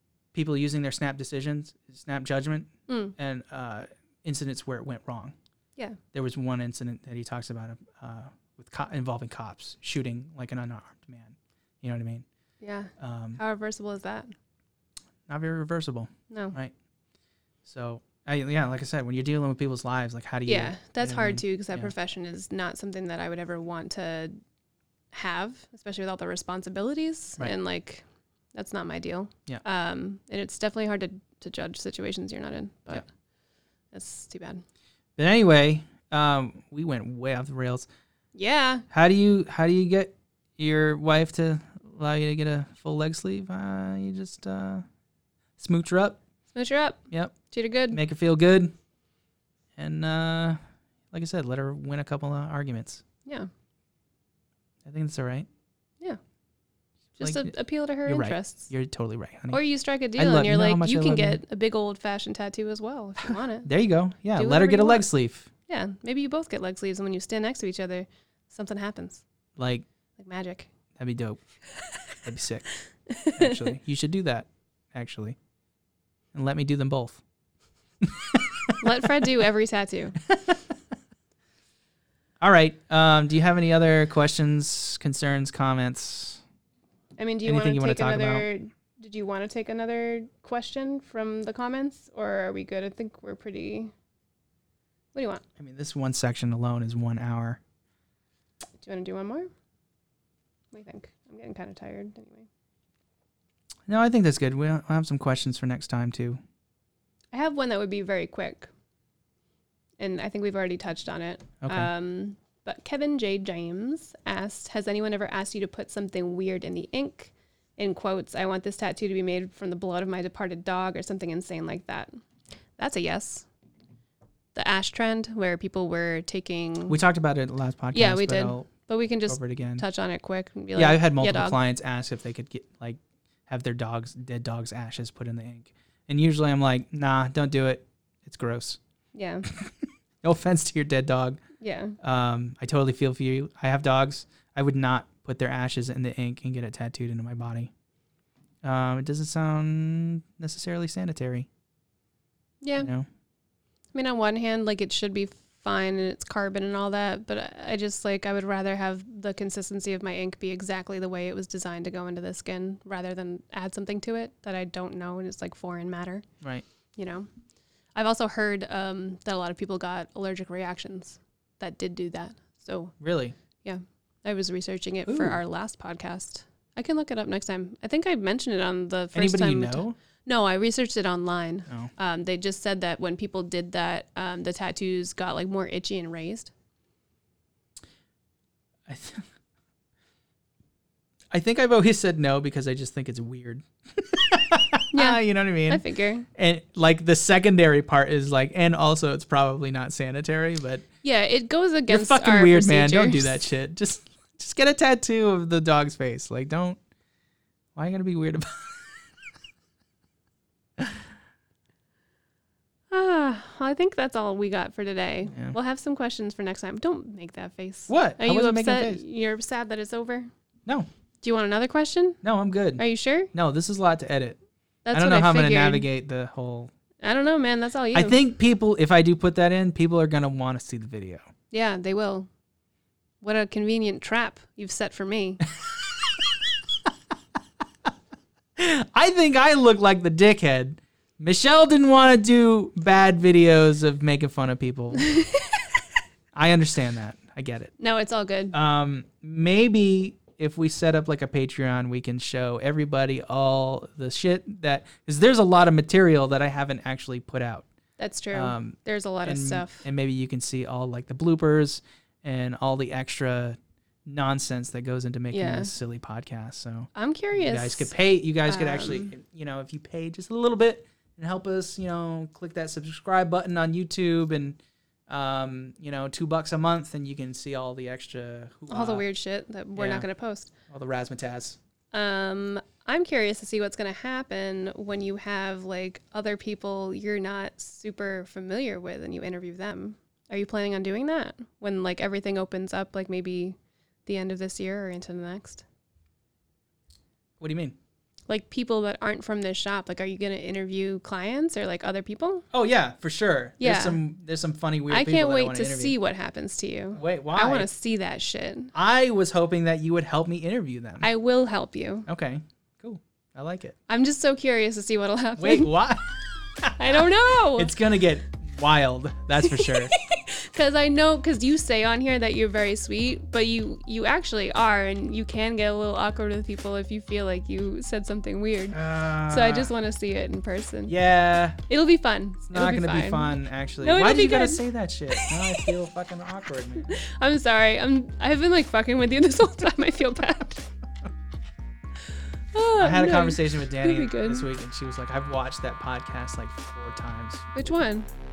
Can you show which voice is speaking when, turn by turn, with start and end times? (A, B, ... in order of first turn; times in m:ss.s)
0:00.3-0:05.3 A
0:02.9-0:03.1 B
0:06.1-0:12.2 A
0:12.6-0:14.3 B
0:13.0-0:13.4 A
0:15.3-0:16.7 A
0:16.3-0:16.6 B
0:17.6-0:21.9 A
0:20.4-0:24.4 B
0:25.1-0:33.1 B
0:33.9-0:34.6 B
0:35.2-0:37.9 A
0:38.3-0:38.8 B
0:38.9-0:44.8 A
0:45.6-0:46.2 A
0:46.5-0:48.0 B
0:47.1-0:47.3 A
0:47.9-0:48.7 A
0:49.8-0:50.6 A
0:51.1-0:53.0 A
0:54.8-0:55.5 A
0:57.2-0:58.7 B
0:57.2-0:57.5 A
0:58.0-0:59.6 A
0:59.5-1:03.7 B
1:00.2-1:01.4 A
1:03.6-1:05.5 A
1:04.4-1:05.0 B
1:05.7-1:09.2 B
1:09.6-1:09.8 A
1:10.2-1:10.7 B
1:11.0-1:11.4 A
1:12.2-1:12.7 A
1:13.1-1:13.7 B
1:13.4-1:15.4 A
1:16.3-1:17.2 A
1:18.0-1:19.1 A
1:18.8-1:20.2 B
1:20.3-1:20.6 A
1:22.4-1:26.4 A
1:27.2-1:33.9 B
1:27.4-1:28.4 A
1:35.1-1:35.4 B
1:35.6-1:37.6 A
1:38.8-1:39.5 B
1:40.7-1:42.5 B
1:43.9-1:46.4 A
1:47.3-1:48.7 B
1:50.0-2:02.1 B
1:51.6-1:51.9 A
2:02.8-2:03.5 B
2:04.5-2:07.0 B
2:06.9-2:08.7 A
2:07.9-2:11.6 B
2:09.3-2:09.8 A
2:10.8-2:18.8 A
2:19.1-2:19.5 B
2:19.4-2:21.4 A
2:21.6-2:22.0 B
2:22.0-2:27.7 A
2:28.6-2:31.5 A
2:32.6-2:32.9 B
2:32.8-2:33.1 A
2:33.9-2:46.2 B
2:47.0-2:47.3 B
2:47.9-2:52.9 B
2:53.0-2:53.3 A
2:53.6-3:06.5 B
2:55.0-2:55.4 A
2:59.1-3:00.0 A
3:08.8-3:09.3 A
3:11.3-3:20.8 A
3:14.9-3:16.3 B
3:21.0-3:23.5 B
3:21.9-3:26.8 A
3:27.7-3:29.0 A
3:32.9-3:40.3 B
3:37.9-3:39.0 A
3:41.2-3:42.2 B
3:42.2-3:44.4 A
3:42.8-3:43.3 B
3:44.8-3:45.9 B
3:44.9-3:46.7 A
3:47.0-3:48.2 B
3:47.9-3:51.2 A
3:51.5-3:52.3 B
3:53.2-3:55.4 B
3:55.6-3:56.5 A
3:58.6-4:05.2 A
4:05.0-4:05.5 B
4:06.3-4:07.7 A
4:07.8-4:08.5 B
4:08.5-4:17.6 A
4:18.0-4:19.9 B
4:18.3-4:39.0 A
4:25.3-4:25.7 B
4:26.9-4:27.9 B
4:28.4-4:29.1 B
4:38.7-4:40.5 B
4:39.8-4:40.1 A
4:40.7-4:41.6 A
4:41.9-4:55.6 B
4:57.4-4:57.8 A
4:58.3-5:02.4 B
5:02.5-5:06.0 A
5:03.6-5:04.0 B
5:04.9-5:08.7 B
5:07.0-5:07.7 A
5:08.7-5:11.1 A
5:11.0-5:12.1 B
5:12.1-5:13.8 A
5:13.9-5:15.7 B
5:15.4-5:19.9 A
5:16.8-5:17.7 B
5:19.4-5:30.9 B
5:28.7-5:29.7 A
5:30.9-5:31.6 A
5:31.7-5:35.6 B
5:32.5-5:37.0 A
5:36.9-5:40.6 B
5:42.5-5:44.4 B
5:42.8-5:47.8 A
5:47.5-5:48.1 B